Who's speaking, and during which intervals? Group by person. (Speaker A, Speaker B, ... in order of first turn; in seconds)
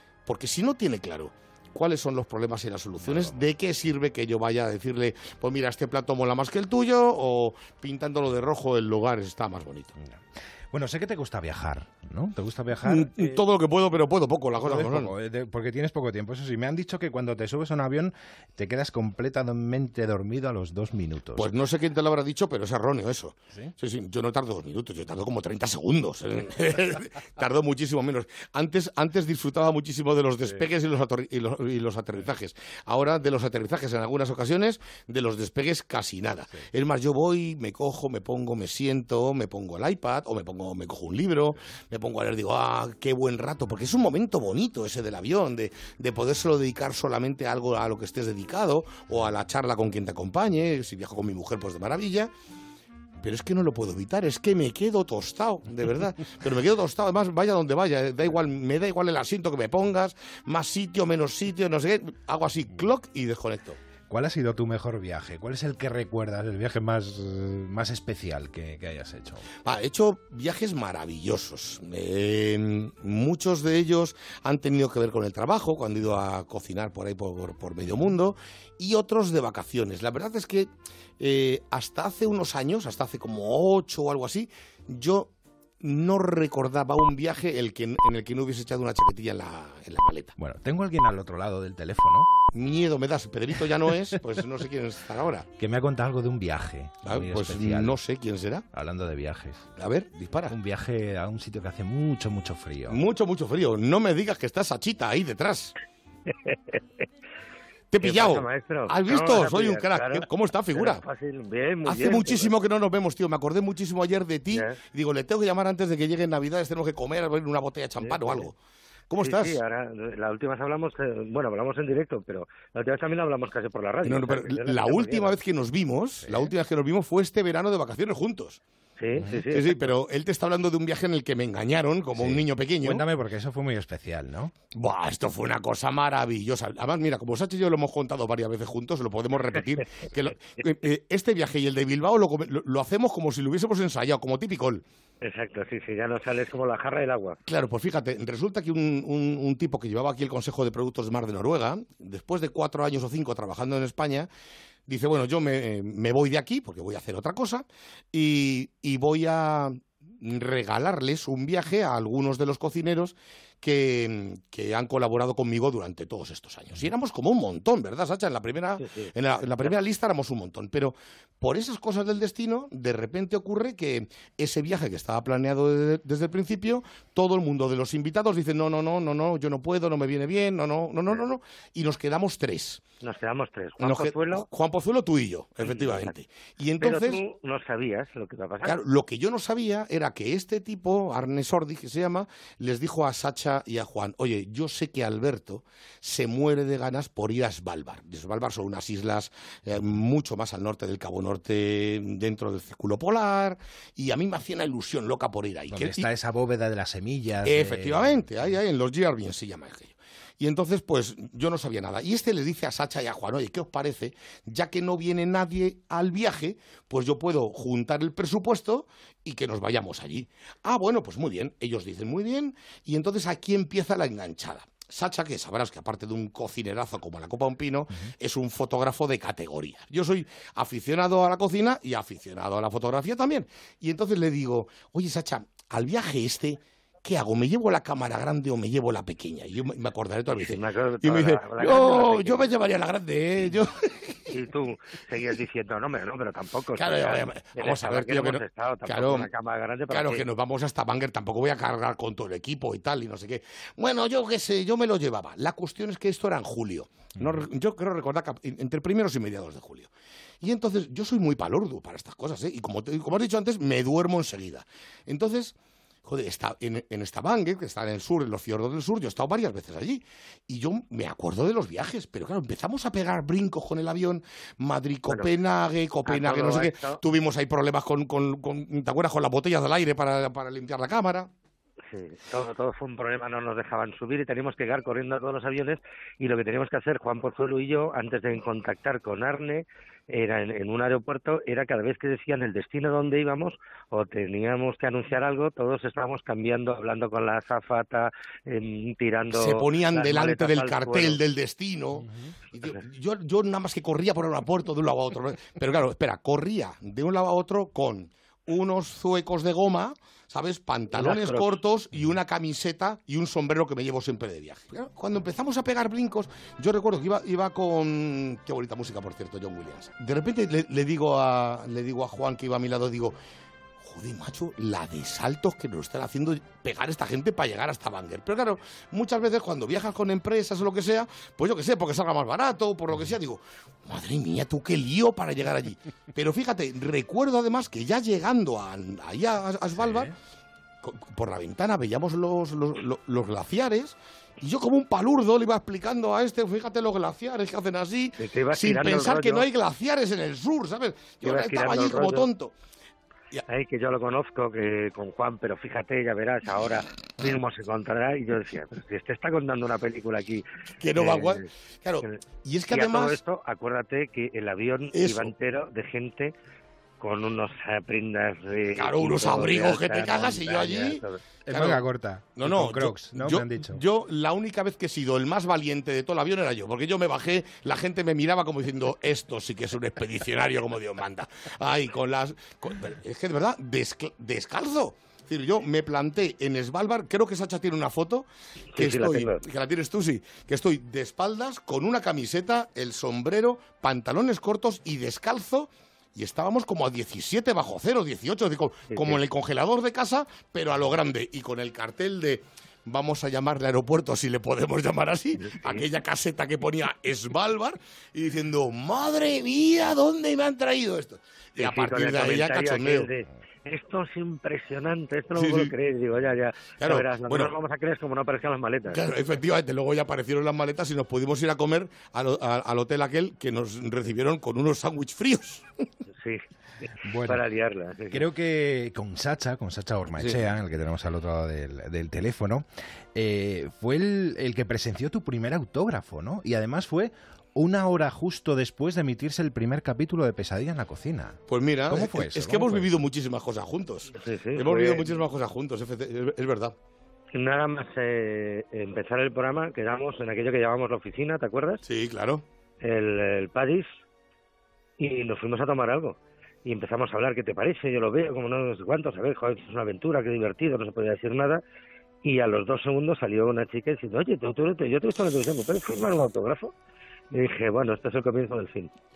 Speaker A: 0.3-9.9, 12.9-15.1, 21.4-52.3, 53.2-63.8, 69.6-90.3, 92.5-95.5, 97.0-98.7, 99.8-100.5, 102.9-105.7, 107.9-111.0, 111.8-118.5, 119.1-119.6, 124.0-128.6, 129.4-133.0, 134.7-144.8, 147.4-154.3, 154.9-182.8, 183.8-187.2, 188.6-206.1, 207.4-243.9, 246.8-249.3, 249.9-259.9, 260.4-281.3, 299.3-323.2, 323.8-340.1, 340.8-352.5, 360.8-363.2, 364.9-365.3, 368.8-371.8, 372.4-413.1, 415.4-415.7, 416.8-417.6, 418.9-425.6, 430.2-430.4, 441.5-446.8, 451.8-452.4
Speaker B: 3.0-3.4, 10.0-13.4, 14.6-21.5, 64.1-69.5, 90.4-92.3, 95.6-98.0, 98.7-99.7, 100.5-103.0, 126.2-126.5, 132.2-134.5, 205.7-208.5, 339.8-340.1, 371.5-373.8, 427.1-427.4, 428.1-442.9
Speaker C: 108.0-112.5, 114.5-114.8, 118.0-118.5, 119.2-125.4, 129.0-129.8, 145.2-147.4, 168.8-169.1, 183.0-184.5, 185.7-186.1, 186.8-188.8, 240.4-242.5, 244.3-250.2, 276.1-277.0, 281.9-301.2, 311.0-311.5, 348.2-349.5, 351.2-352.3, 353.5-361.5, 362.7-366.3, 367.0-371.2, 388.8-389.4, 398.9-399.2, 405.5-405.8, 411.6-419.0, 427.2-428.2, 444.2-445.1, 447.3-451.8, 452.8-453.9, 455.0-461.6, 462.2-466.7, 467.3-468.9